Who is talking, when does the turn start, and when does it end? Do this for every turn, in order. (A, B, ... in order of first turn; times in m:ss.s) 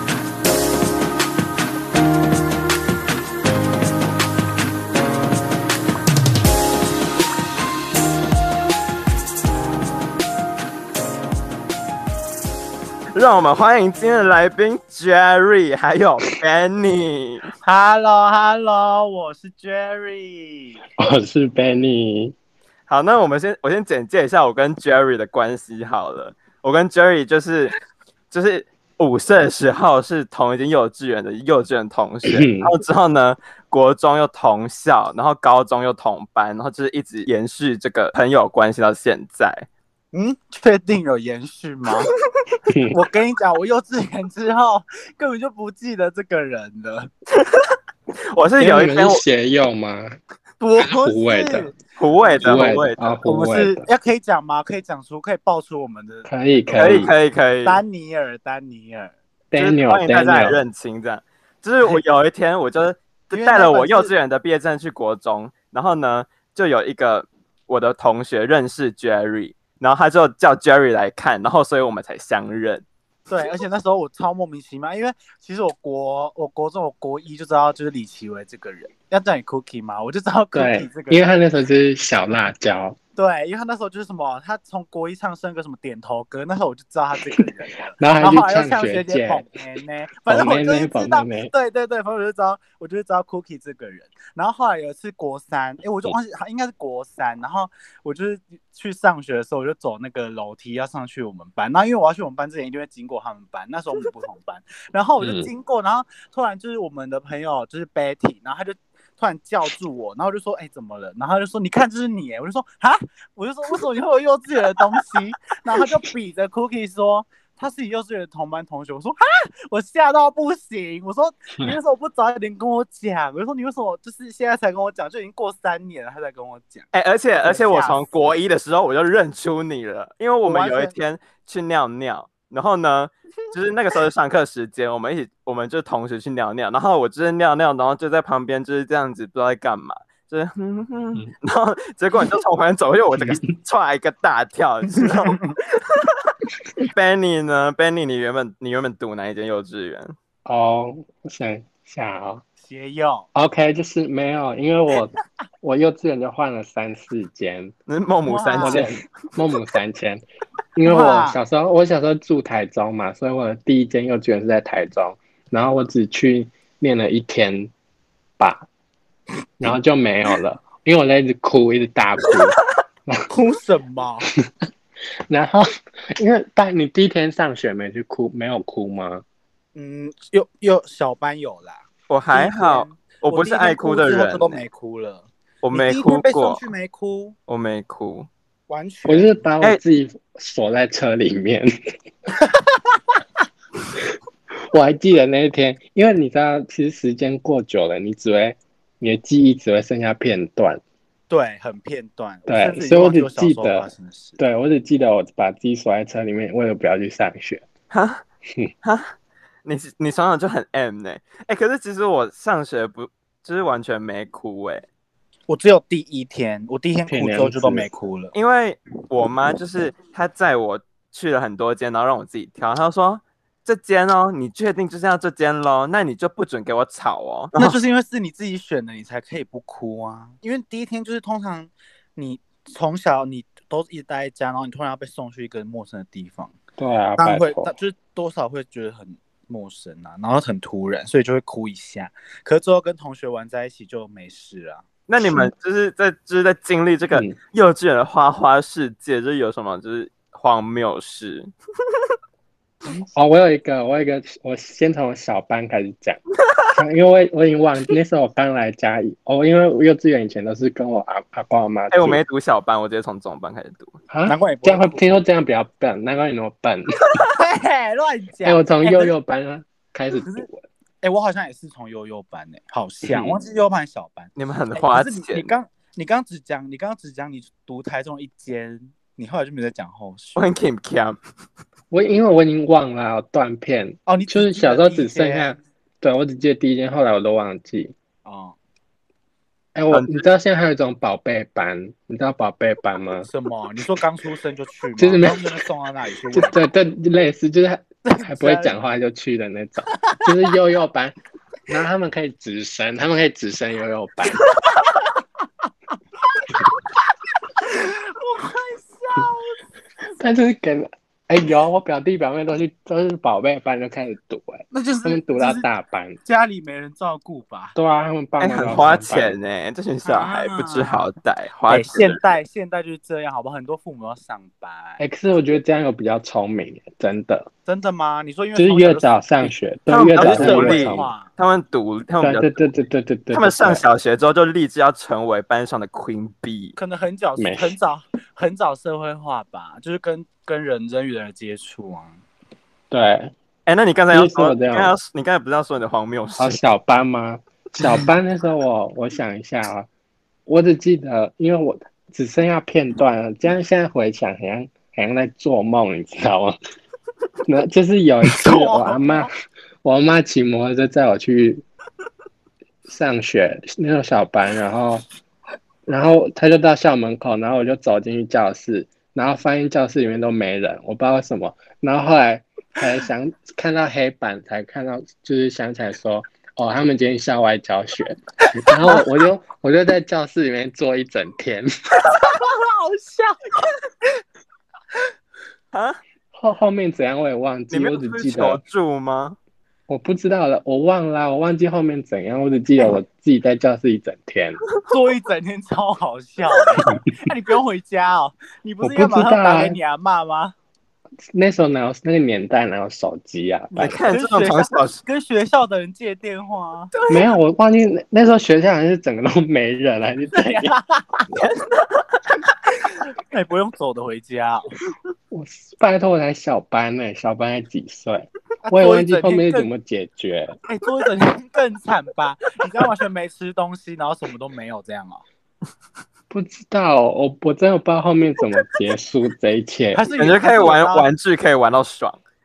0:13.1-0:17.5 A
0:17.6-0:20.8 B
0:21.0-0:22.4 C
0:22.9-0:27.8 A
0:28.3-0:39.7 A
0:32.2-0:32.7 C
0:40.1-0:42.1 B
0:42.7-0:43.0 C
0:42.9-0:47.1 B
0:47.3-0:47.6 A
0:48.3-0:49.2 A
0:48.6-0:50.2 C
0:50.6-0:57.1 B
0:50.8-0:51.7 C
0:52.0-0:53.2 A
0:52.4-0:53.8 C
0:56.3-0:57.1 C
0:56.8-0:57.8 A
0:57.6-0:59.1 B
0:59.5-1:00.6 C
0:59.6-1:12.9 A
1:03.3-1:04.1 B
1:13.3-1:21.3 B
1:20.5-1:23.0 C
1:23.2-2:06.9 B
1:28.0-1:29.4 C
1:30.3-1:31.5 C
1:45.2-1:45.5 C
2:06.9-2:26.2 A
2:07.4-2:08.1 B
2:10.4-2:10.9 B
2:25.0-2:25.5 B
2:26.8-2:30.2 A
2:30.5-2:32.4 C
2:32.6-2:33.3 B
2:33.4-2:37.7 C
2:37.9-2:38.9 A
2:38.3-2:39.0 B
2:38.6-2:40.2 C
2:40.8-2:47.7 C
2:40.8-2:41.4 B
2:48.4-2:48.7 C
2:49.6-2:53.3 C
2:53.3-2:54.3 B
2:55.3-2:59.2 C
2:59.8-3:07.4 B
3:02.1-3:04.6 A
3:05.6-3:06.6 A
3:07.5-3:08.3 A
3:08.7-3:09.4 B
3:09.1-3:11.7 C
3:12.4-3:12.7 B
3:14.7-3:20.8 C
3:21.3-3:24.4 B
3:22.5-3:23.9 C
3:24.4-3:27.7 C
3:27.9-3:28.2 A
3:28.8-3:29.1 A
3:29.6-3:34.8 A
3:35.5-3:38.3 B
3:37.1-3:37.9 C
3:38.3-3:47.8 A
3:47.6-3:56.6 B
3:56.8-3:57.7 C
3:57.2-4:04.8 B
4:05.1-4:11.5 A
4:13.1-4:16.2 C
4:16.7-4:22.2 C
4:21.9-4:24.0 A
4:24.1-4:26.9 C
4:24.3-4:25.0 B
4:27.2-4:29.1 B
4:28.4-4:30.6 C
4:30.2-4:30.5 B
4:31.0-4:40.4 B
4:33.0-4:33.4 C
4:34.4-4:35.5 A
4:40.4-4:41.2 A
4:41.9-4:47.9 C
4:44.1-4:45.6 B
4:48.2-4:48.6 B
4:49.7-4:53.3 C
4:49.9-4:50.2 A
4:53.3-4:56.6 B
4:55.0-4:55.6 C
4:56.3-5:01.1 C
4:58.0-4:58.8 B
4:59.9-5:00.3 B
5:01.7-5:04.5 C
5:07.6-5:09.6 B
5:10.2-5:16.2 C
5:14.7-5:15.7 B
5:16.2-5:17.8 B
5:17.8-5:19.4 C
5:18.4-5:22.2 A
5:20.0-5:21.1 B
5:21.7-5:25.0 B
5:25.0-5:27.5 C
5:27.7-5:29.5 B
5:28.6-5:31.1 C
5:29.9-5:32.6 A
5:30.2-5:31.3 B
5:32.2-5:33.8 C
5:33.3-5:36.8 A
5:36.8-5:42.2 B
5:37.4-5:37.8 C
5:42.9-5:43.3 C
5:43.7-5:46.6 A
5:44.1-5:45.0 C
5:46.4-5:49.9 C
5:47.8-5:48.1 B
5:50.5-5:56.6 C
5:57.4-5:59.3 C
5:58.2-5:59.3 B
5:59.8-6:01.6 C
6:02.9-6:05.0 C
6:05.9-6:21.7 C
6:18.7-6:19.0 B
6:22.1-6:24.1 B
6:25.7-6:26.0 A
6:26.3-6:28.6 C
6:27.7-6:29.4 A
6:29.9-6:34.6 C
6:34.9-6:40.6 B
6:38.8-6:39.8 C
6:41.3-6:44.0 C
6:43.7-6:47.2 B
6:43.8-6:45.0 A
6:47.1-6:50.8 C
6:50.3-6:51.3 B
6:51.4-6:52.1 A
6:52.8-6:54.7 B
6:55.3-7:00.6 C
6:58.6-6:59.7 B
7:00.7-7:05.2 B
7:06.3-7:10.1 C
7:09.9-7:11.1 B
7:10.2-7:12.2 A